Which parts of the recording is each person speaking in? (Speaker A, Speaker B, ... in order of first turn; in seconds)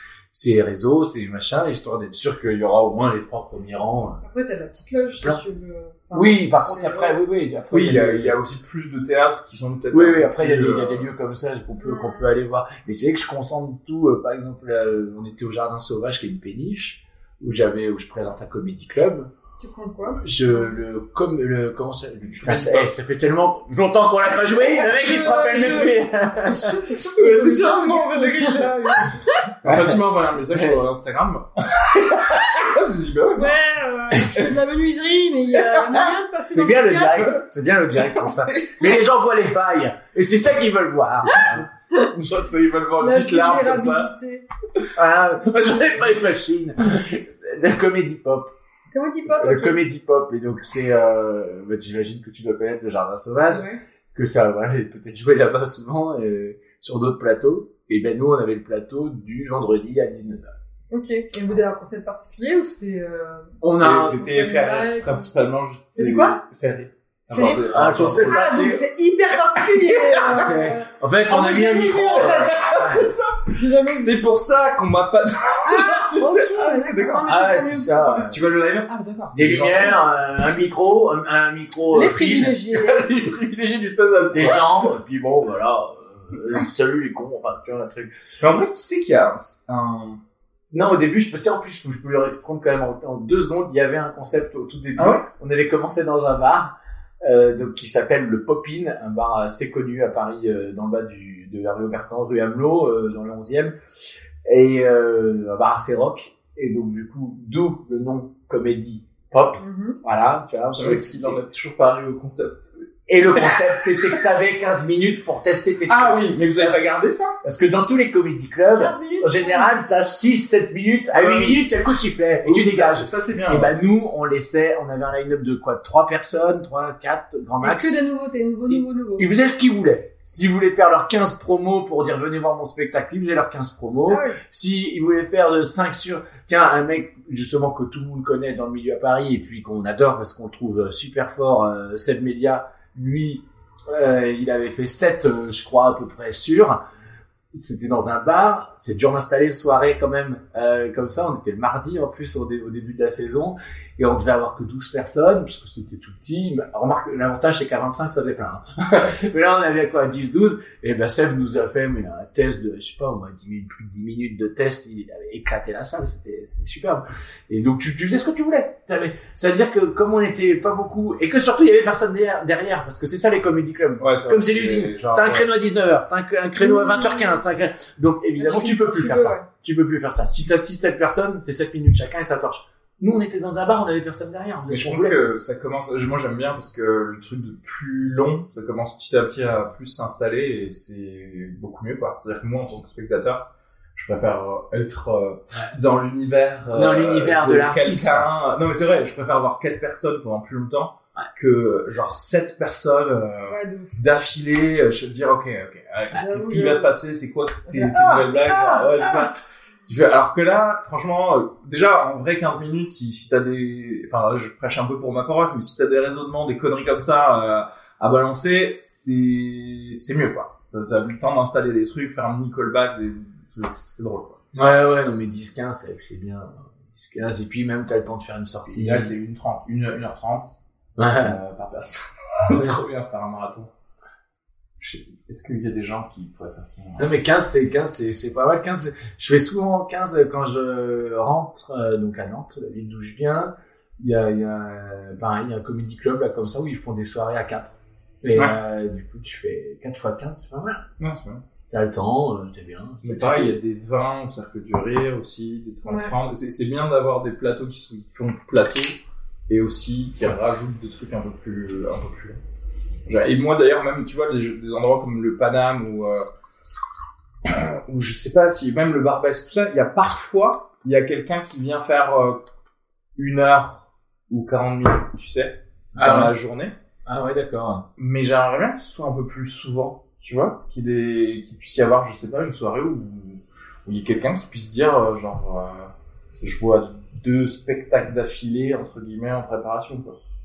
Speaker A: 0.3-4.2, 6.1-8.3, 9.9-19.3, 20.2-26.7, 29.6-30.0, 36.5-41.6, 44.9-48.5, 49.3-60.5, 63.6-64.2, 67.3-68.8, 70.2-73.1, 77.2-78.4, 79.3-88.1, 90.7-103.7, 104.5-111.4, 113.1-116.8, 117.4-127.9, 128.7-146.8, 147.5-185.2, 196.7-198.3, 224.5-229.1, 231.0-231.4, 237.0-250.8, 251.7-253.5, 275.9-276.3, 277.1-277.8
Speaker B: 4.2-7.2, 11.8-12.3, 19.6-20.6, 24.7-29.4, 33.4-37.4, 43.0-44.5, 48.9-49.8, 53.5-53.8, 60.9-65.3, 66.0-66.4, 67.3-72.5, 73.5-74.1, 75.6-78.3, 81.9-83.1, 109.6-110.0, 118.7-119.7, 127.6-129.3, 134.1-134.4, 176.6-177.4, 178.4-179.5, 203.5-204.0, 206.1-206.9, 207.7-209.3, 255.8-256.1
Speaker C: 7.7-11.1, 22.4-22.9, 27.2-33.6, 35.5-36.1, 41.4-44.1, 63.8-68.8, 69.7-70.2, 71.9-77.3, 78.3-80.0, 84.3-84.7, 88.4-90.2, 95.0-95.2, 110.7-112.7, 113.3-114.2, 115.9-117.3, 121.1-121.7, 122.4-123.7, 174.0-175.5, 184.7-209.3, 209.9-224.4, 228.7-230.6, 231.2-233.7, 234.8-237.1, 251.0-251.4, 253.0-262.4, 263.1-266.3, 267.4-272.4, 273.2-276.7, 278.0-290.1